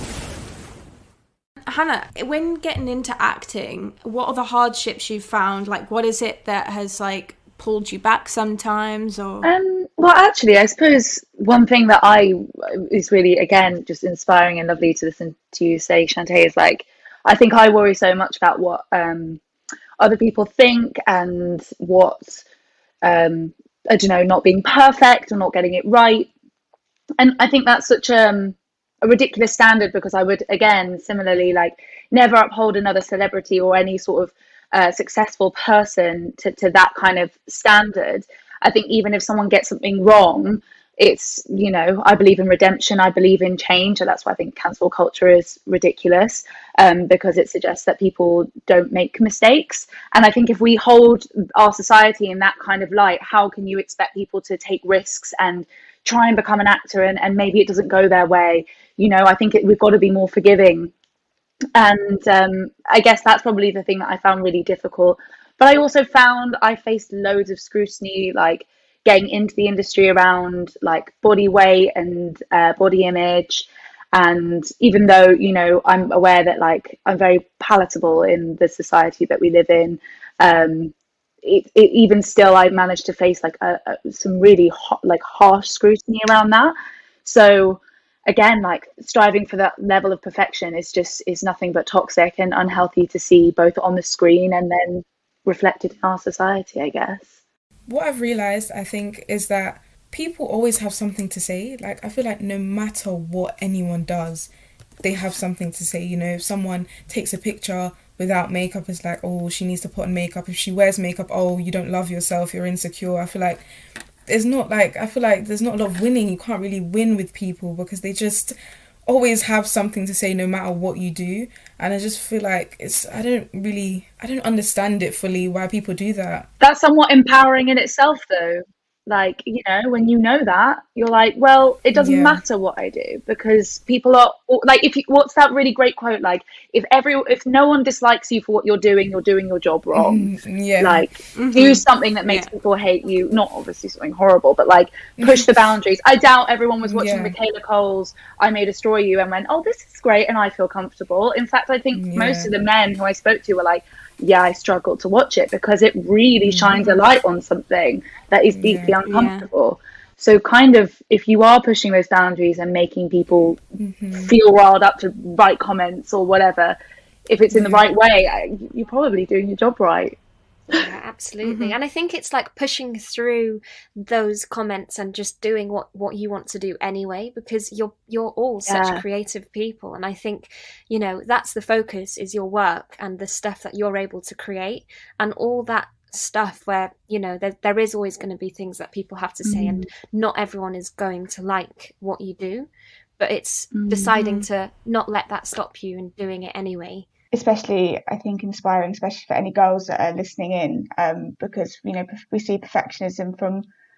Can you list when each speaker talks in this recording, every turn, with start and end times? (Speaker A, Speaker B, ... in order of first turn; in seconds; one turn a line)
Speaker A: 1.7-9.5
Speaker B: 9.4-19.4
Speaker B: 20.0-22.4
Speaker B: 23.0-26.3
Speaker B: 27.2-60.9
Speaker B: 61.7-97.3
Speaker C: 97.9-104.5
Speaker C: 105.0-113.6
Speaker C: 114.3-118.5
Speaker C: 119.1-126.5
Speaker B: 126.6-140.3
Speaker C: 131.9-132.4
Speaker C: 139.9-141.1
Speaker B: 140.8-166.8
Speaker A: 141.3-142.5
Speaker C: 145.2-145.6
Speaker C: 146.8-147.4
Speaker C: 151.9-152.5
Speaker C: 156.4-156.9
Speaker C: 158.5-159.0
Speaker A: 159.1-159.5
Speaker C: 163.8-164.3
Speaker B: 167.3-170.2
Speaker C: 167.5-167.8
Speaker D: 170.7-197.1
Speaker A: 171.4-171.8
Speaker B: 178.7-179.0
Speaker B: 189.4-189.8
Speaker B: 193.7-194.1
Speaker A: 194.1-194.4
Speaker E: 197.3-203.6